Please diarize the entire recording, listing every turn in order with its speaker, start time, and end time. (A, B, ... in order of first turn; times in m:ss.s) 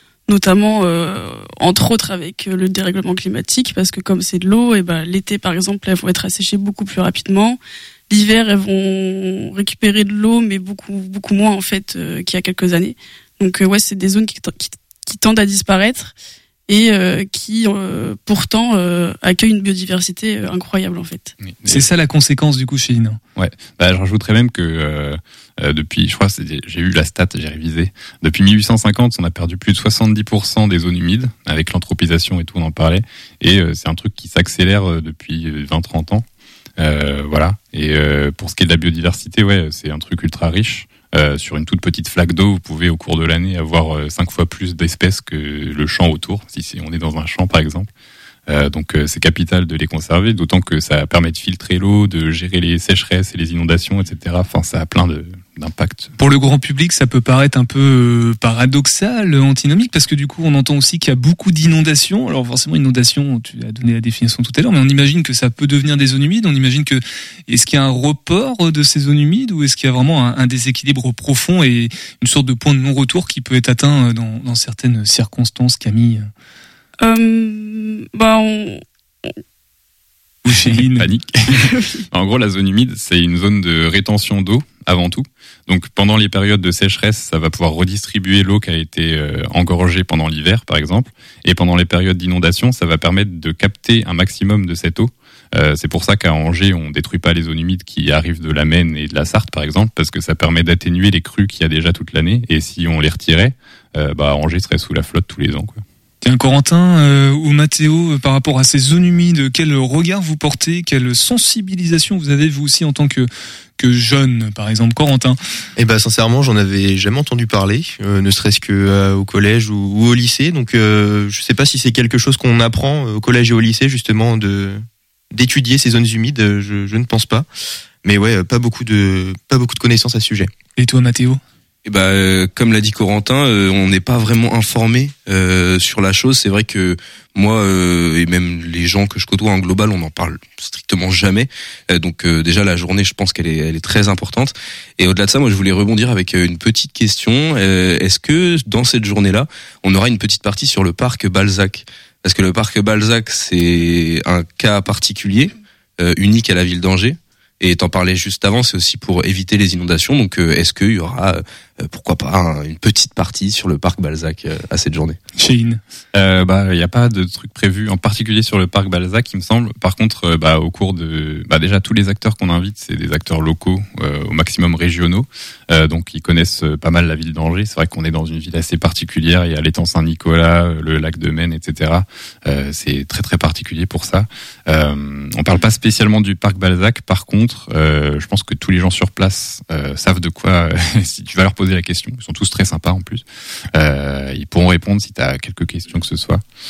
0:00.3-0:16.1 A
0:16.7-0:21.3 A
0:21.4-0:21.9 B
0:21.7-0:23.2 C
0:23.4-0:36.3 B
0:36.8-0:47.9 B
0:48.5-0:56.1 B
0:56.2-1:16.3 C
1:17.0-1:19.3 A
1:20.4-1:21.1 C
1:20.5-1:45.8 B
1:21.6-1:22.1 A
1:46.2-1:55.4 C
1:55.8-2:07.5 D
2:08.0-2:10.5 D
2:10.8-2:11.4 C
2:11.9-2:45.2 E
2:45.4-2:45.8 C
2:46.1-3:16.4 B